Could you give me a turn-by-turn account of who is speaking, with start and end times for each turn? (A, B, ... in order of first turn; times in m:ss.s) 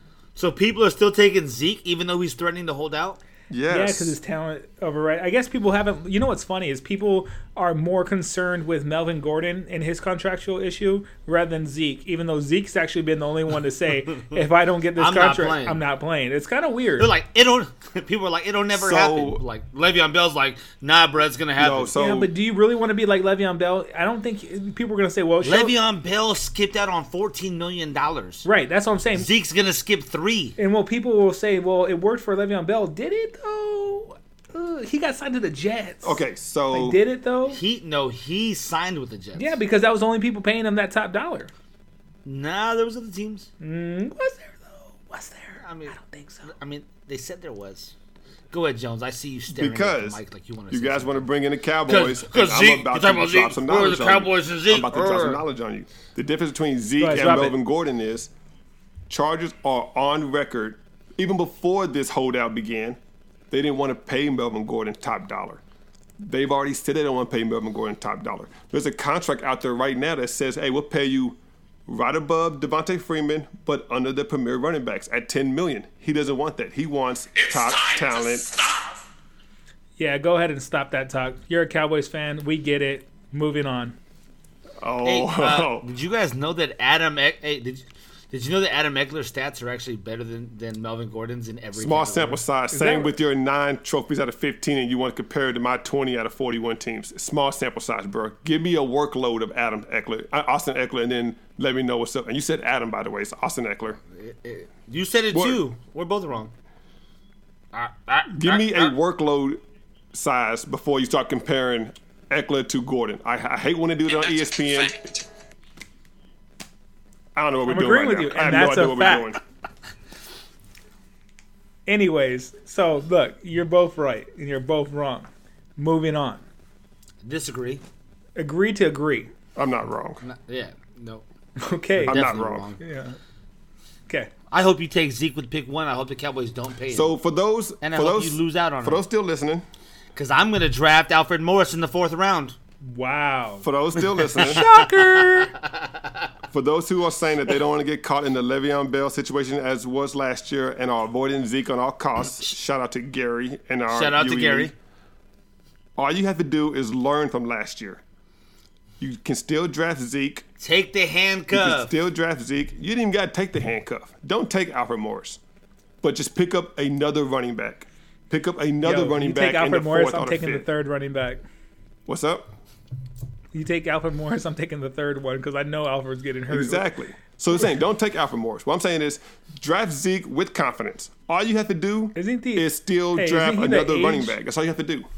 0:00.4-0:03.2 A
0:03.5-0:04.2 B
0:03.7-0:17.1 C
0:15.0-0:15.8 A
0:17.0-0:21.9 A
0:18.7-0:19.4 B
0:21.6-0:22.3 B
0:21.9-0:25.7 C
0:25.4-0:28.4 A
0:28.4-0:29.3 C
0:29.1-0:30.6 A
0:30.6-0:36.2 C
0:36.0-0:37.0 B
0:36.7-0:37.6 C
0:37.4-0:39.6 A
0:39.3-0:41.5 C
0:42.2-0:43.5 A
0:43.6-0:46.5 C
0:45.6-0:47.9 A
0:48.5-0:51.3 A
0:49.5-0:50.2 B
0:50.7-0:58.3 B
0:51.9-0:55.4 A
0:57.0-0:57.6 C
0:59.1-1:03.0 B
1:03.5-1:05.6 B
1:06.2-1:18.8 B
1:20.0-1:24.0 C
1:24.8-1:25.9 B
1:25.0-1:32.4 A
1:31.8-1:44.0 B
1:32.7-1:33.2 C
1:44.1-1:46.5 A
1:45.3-1:45.6 B
1:47.7-1:48.9 A
1:48.3-1:49.6 B
1:50.1-1:55.2 B
1:57.3-1:59.4 B
1:57.6-1:59.3 C
2:01.9-2:06.4 C
2:07.2-2:07.8 A
2:08.4-2:09.3 C
2:09.6-2:10.2 B
2:10.2-2:11.2 A
2:11.6-2:12.2 C
2:12.0-2:12.8 A
2:12.0-2:12.7 B
2:12.8-2:13.2 C
2:14.5-2:17.1 A
2:16.9-2:19.6 B
2:17.8-2:19.0 A
2:20.1-2:22.6 A
2:22.8-2:23.6 C
2:23.6-2:24.6 B
2:24.2-2:26.0 A
2:24.3-2:25.5 C
2:26.5-2:34.7 B
2:33.9-2:34.7 A
2:36.0-2:38.0 B
2:39.0-2:40.4 B
2:40.6-2:41.9 A
2:41.5-2:45.4 B
2:46.0-2:50.6 B
2:48.8-2:51.4 C
2:52.0-2:52.5 B
2:53.5-2:56.8 C
2:56.5-3:05.1 B
3:02.1-3:04.4 C